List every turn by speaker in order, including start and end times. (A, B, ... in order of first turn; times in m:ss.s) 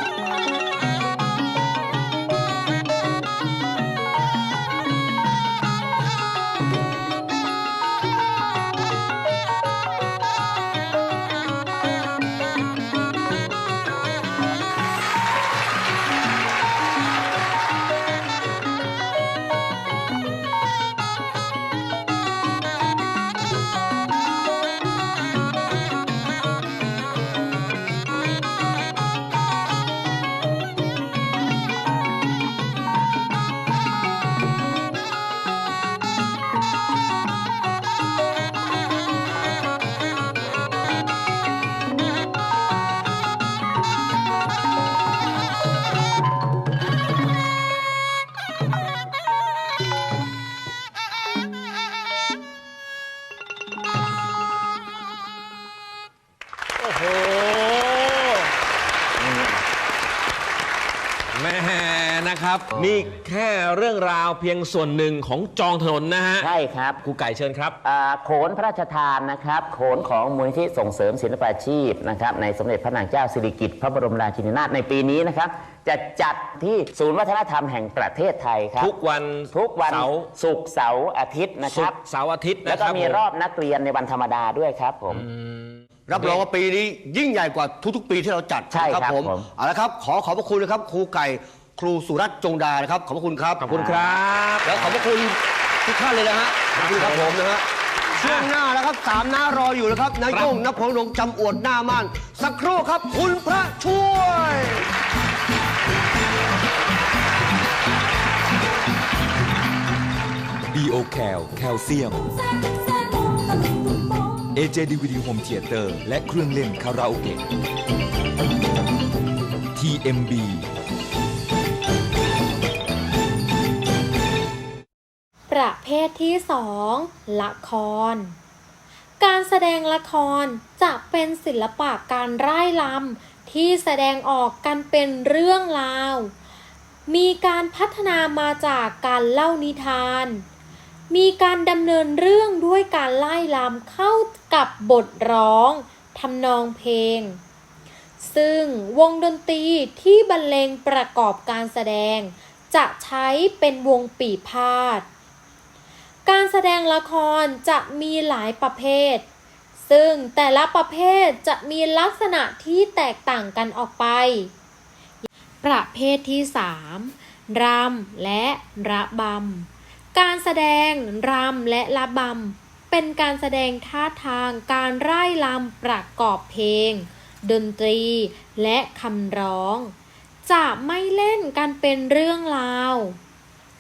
0:57.0-0:58.2 A
0:59.2-0:59.5 B
1:01.3-1:06.5 A
1:06.4-1:07.0 B
1:07.0-1:07.8 A
1:07.8-1:19.0 B
1:18.8-1:20.3 A
1:19.5-1:22.0 B
1:21.6-1:23.2 A
1:22.6-1:25.2 B
1:25.1-1:26.4 A
1:26.1-1:37.6 C
1:28.7-1:29.5 B
1:33.6-1:35.0 A
1:36.8-1:37.3 A
1:38.2-1:44.8 C
1:40.3-1:40.6 A
1:50.7-1:52.3 D
1:54.5-1:57.4 D
1:59.7-2:00.7 D
2:05.5-2:08.4 E
2:09.2-2:16.3 E
2:17.1-2:20.4 E
2:21.1-2:27.4 E
2:28.2-2:35.1 E
2:36.2-2:39.3 E
2:39.8-2:44.5 E
2:45.6-2:59.9 E
3:00.4-3:03.2 E